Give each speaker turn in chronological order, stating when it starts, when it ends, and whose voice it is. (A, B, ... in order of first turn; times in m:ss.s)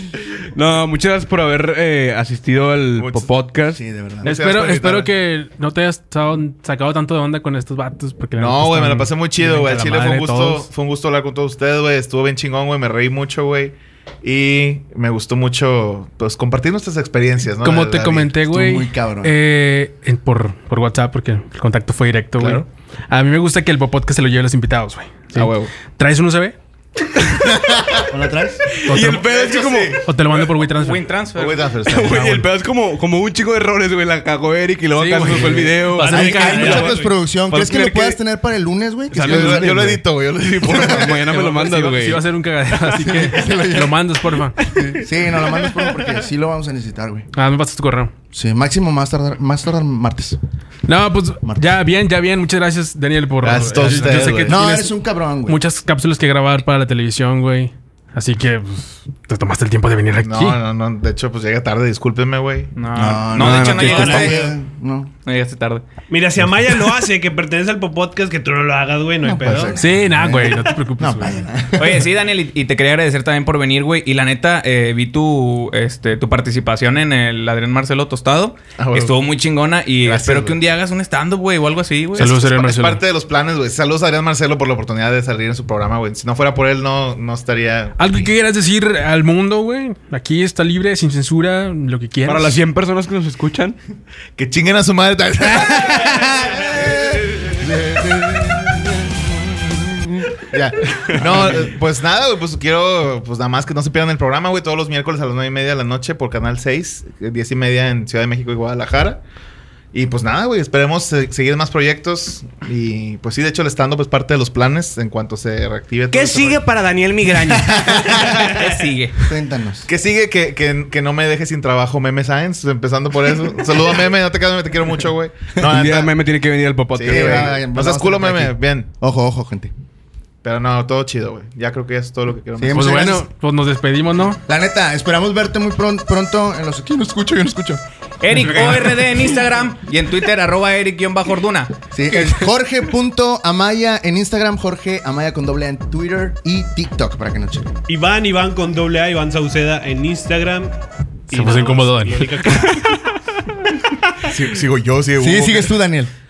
0:00.6-0:03.8 A
0:03.0-0:03.3 B
0:03.7-0:04.3 C
0:04.2-0:05.1 B
0:04.2-0:10.7 D
0:08.4-0:18.4 B
0:17.6-0:26.6 D
0:18.5-0:19.4 C
0:22.4-0:22.6 B
0:25.3-0:25.7 B
0:27.4-0:28.1 B
0:28.0-0:28.7 C
0:28.7-0:30.0 A
0:28.9-0:29.2 D
0:29.0-0:30.4 B
0:30.0-0:31.1 D
0:30.7-0:31.7 E
0:31.3-0:32.5 B
0:31.9-0:36.8 A
0:34.9-0:36.9 D
0:35.9-0:37.2 F
0:36.0-0:40.0 C
0:37.5-0:38.2 A
0:39.1-0:41.7 B
0:39.2-0:39.6 A
0:40.4-0:42.2 A
0:40.6-0:41.1 C
0:41.7-0:44.6 D
0:42.9-0:47.3 C
0:47.3-0:48.1 D
0:48.3-0:50.4 C
0:50.9-0:54.9 D
0:51.4-0:51.8 C
0:53.4-0:54.6 B
0:53.9-0:55.6 C
0:55.5-1:00.6 D
1:00.2-1:02.7 B
1:02.8-1:04.4 E
1:02.9-1:05.1 C
1:03.3-1:04.4 A
1:03.6-1:04.5 F
1:05.2-1:05.9 E
1:06.1-1:09.8 F
1:09.2-1:12.1 C
1:09.8-1:11.5 D
1:11.8-1:22.4 E
1:18.8-1:19.1 B
1:20.0-1:20.6 B
1:22.2-1:23.0 D
1:22.2-1:28.3 B
1:28.0-1:32.6 D
1:32.2-1:33.8 A
1:34.4-1:37.0 B
1:35.8-1:40.4 C
1:40.5-1:49.2 B
1:41.1-1:41.7 C
1:49.9-1:56.7 B
1:56.1-1:58.0 A
1:57.9-1:58.5 B
1:58.2-1:59.2 E
1:59.3-1:59.9 C
1:59.9-2:06.2 B
2:05.6-2:07.6 A
2:06.9-2:08.9 B
2:07.0-2:09.7 C
2:10.4-2:13.1 B
2:12.6-2:13.3 C
2:12.7-2:14.4 D
2:14.5-2:17.8 C
2:18.2-2:22.5 E
2:18.3-2:19.0 A
2:21.9-2:27.8 C
2:27.9-2:30.8 F
2:31.3-2:33.0 F
2:31.3-2:32.3 D
2:32.7-2:33.1 A
2:34.2-2:35.8 B
2:35.2-2:36.1 C